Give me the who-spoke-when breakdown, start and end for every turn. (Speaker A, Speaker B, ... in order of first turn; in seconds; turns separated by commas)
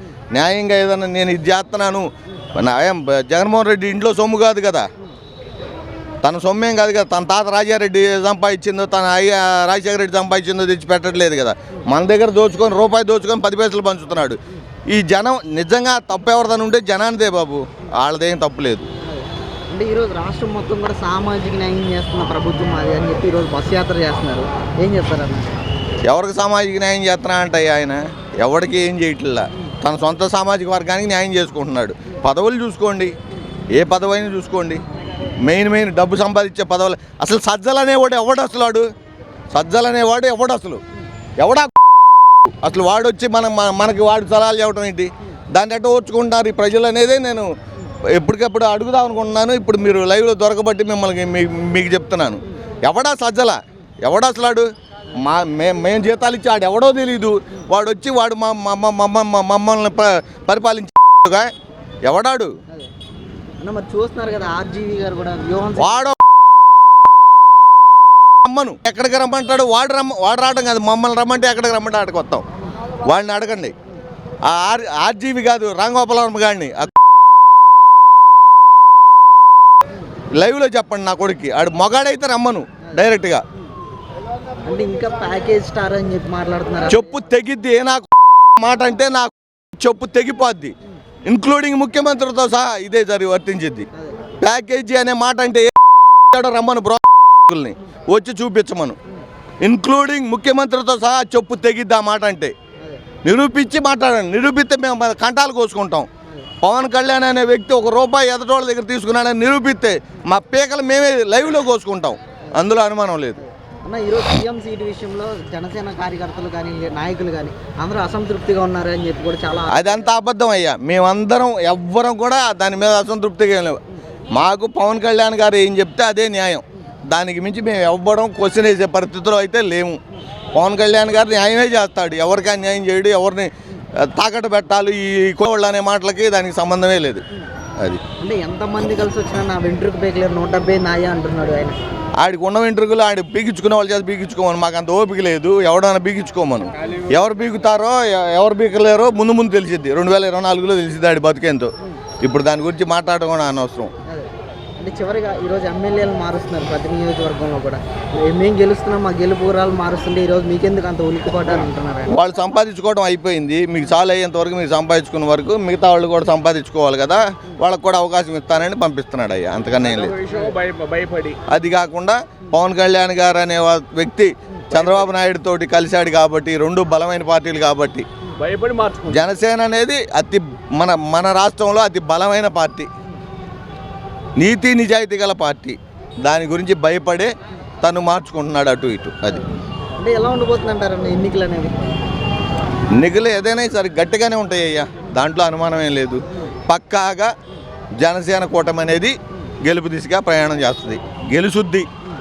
Speaker A: 0.3-4.9, Speaker A: 6.2-18.9, Speaker B: 19.0-25.5, Speaker A: 26.0-33.1, Speaker A: 33.8-34.8, Speaker A: 35.4-38.9, Speaker A: 39.5-40.8, Speaker A: 41.4-41.8, Speaker A: 42.6-47.5, Speaker A: 48.1-61.5, Speaker A: 62.0-62.5, Speaker B: 63.6-66.1, Speaker A: 65.8-66.2, Speaker A: 68.4-72.4, Speaker A: 73.0-73.7, Speaker A: 74.5-76.9, Speaker A: 80.4-83.4, Speaker B: 84.7-87.1, Speaker A: 86.9-90.7, Speaker A: 91.2-93.9, Speaker B: 93.9-94.2, Speaker A: 94.4-95.7, Speaker A: 96.3-99.0, Speaker A: 99.6-102.5, Speaker B: 102.8-103.0, Speaker A: 103.2-106.1, Speaker B: 106.2-106.5, Speaker A: 106.6-113.4, Speaker B: 113.4-120.1, Speaker A: 119.7-123.8, Speaker A: 124.3-130.0, Speaker A: 130.5-137.2, Speaker B: 138.2-141.8, Speaker A: 142.2-153.9, Speaker B: 154.1-162.2, Speaker A: 162.1-170.2, Speaker C: 170.0-171.4, Speaker A: 171.4-178.1, Speaker C: 178.3-179.2, Speaker A: 179.1-182.9, Speaker A: 184.4-187.3, Speaker A: 187.8-189.4, Speaker B: 190.0-191.8, Speaker A: 192.9-197.3, Speaker A: 198.0-201.9